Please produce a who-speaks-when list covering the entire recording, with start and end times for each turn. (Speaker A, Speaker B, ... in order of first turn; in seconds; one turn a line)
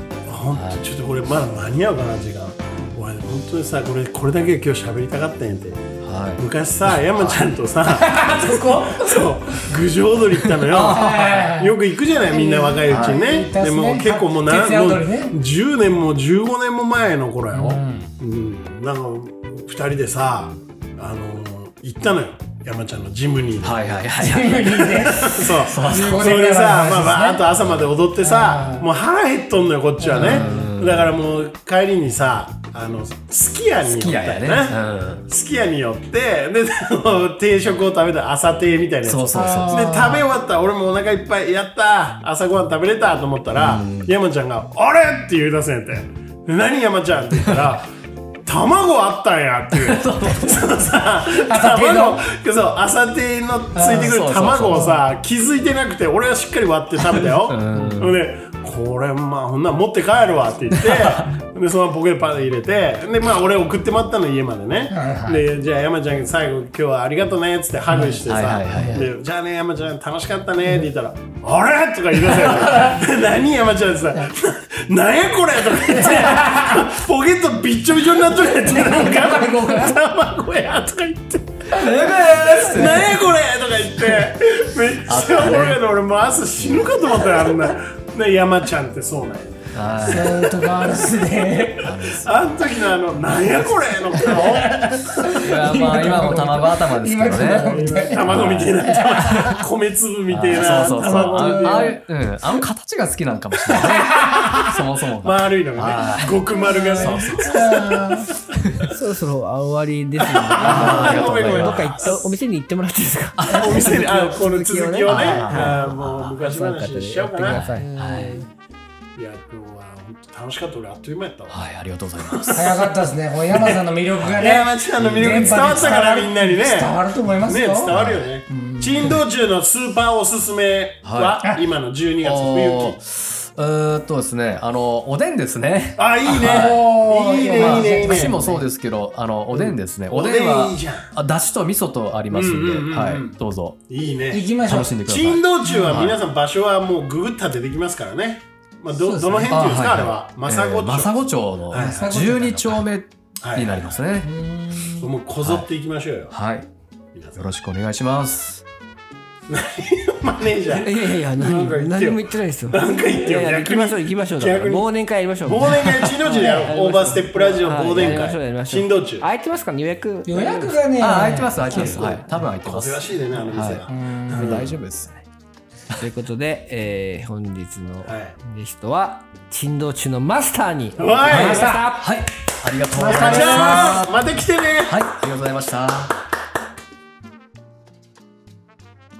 Speaker A: 0.3-23.8
Speaker B: 0.5-0.8
Speaker B: 6.0-7.4
Speaker C: 8.0-9.3
Speaker B: 10.6-11.5
Speaker C: 10.8-11.8
Speaker C: 12.3-15.4
Speaker B: 12.9-13.2
Speaker C: 17.5-18.1
Speaker B: 23.6-26.4
Speaker C: 24.2-27.4
Speaker A: 25.1-47.9
Speaker C: 28.2-28.9
Speaker C: 30.0-30.7
Speaker B: 30.1-31.1
Speaker B: 33.8-35.2
Speaker B: 39.0-39.9
Speaker C: 39.3-40.3
Speaker B: 43.5-44.1
Speaker A: 48.4-81.9
Speaker B: 49.7-50.8
Speaker C: 51.4-52.2
Speaker C: 53.7-55.0
Speaker B: 53.9-54.9
Speaker B: 57.2-58.1
Speaker C: 57.7-58.0
Speaker B: 60.7-61.3
Speaker C: 64.9-65.4
Speaker C: 67.9-68.2
Speaker B: 68.2-69.1
Speaker C: 68.7-69.0
Speaker C: 75.8-76.9
Speaker C: 78.4-79.9
Speaker B: 78.8-79.9
Speaker B: 81.7-83.2
Speaker A: 82.4-90.3
Speaker B: 85.0-85.8
Speaker B: 86.6-87.2
Speaker B: 89.7-90.7
Speaker C: 90.0-91.9
Speaker B: 91.8-92.6
Speaker A: 92.1-95.0
Speaker B: 94.2-99.6
Speaker C: 94.3-99.4
Speaker A: 97.3-102.0
Speaker B: 100.3-106.4
Speaker D: 100.9-101.4
Speaker C: 101.3-101.9
Speaker C: 103.9-104.5
Speaker A: 105.2-108.0
Speaker C: 106.5-108.3
Speaker B: 107.0-107.8
Speaker D: 108.9-117.9
Speaker A: 110.2-112.3
Speaker B: 110.5-112.1
Speaker B: 113.4-114.0
Speaker A: 113.5-117.6
Speaker B: 115.0-115.9
Speaker B: 117.4-118.4
Speaker C: 117.8-118.5
Speaker A: 119.2-121.6
Speaker B: 121.5-122.8
Speaker A: 122.2-122.9
Speaker C: 122.5-127.9
Speaker A: 123.5-133.0
Speaker B: 124.2-126.1
Speaker B: 127.9-128.3
Speaker C: 128.5-129.2
Speaker B: 131.0-131.4
Speaker B: 132.2-136.9
Speaker A: 136.0-138.4
Speaker C: 136.3-138.7
Speaker B: 137.5-143.8
Speaker A: 139.5-141.1
Speaker A: 142.3-152.1
Speaker C: 144.3-144.9
Speaker B: 144.6-146.2
Speaker C: 145.6-146.1
Speaker C: 149.0-149.7
Speaker B: 149.5-154.3
Speaker C: 151.7-152.8
Speaker A: 153.4-154.0
Speaker C: 154.2-155.1
Speaker A: 155.0-156.3
Speaker B: 155.4-155.7
Speaker B: 156.3-156.7
Speaker A: 157.1-157.5
Speaker B: 157.4-158.6
Speaker A: 159.5-164.9
Speaker D: 160.7-170.9
Speaker A: 165.4-169.3
Speaker C: 166.3-166.7
Speaker C: 170.2-172.2
Speaker B: 171.0-173.8
Speaker D: 171.7-172.2
Speaker A: 172.6-174.7
Speaker C: 173.9-174.6
Speaker B: 174.4-175.2
Speaker D: 174.4-174.7
Speaker D: 176.0-182.0
Speaker A: 178.0-178.3
Speaker A: 181.0-181.7
Speaker C: 181.2-182.1
Speaker B: 181.3-184.3
Speaker C: 182.9-184.1
Speaker A: 183.0-185.0
Speaker B: 184.8-186.2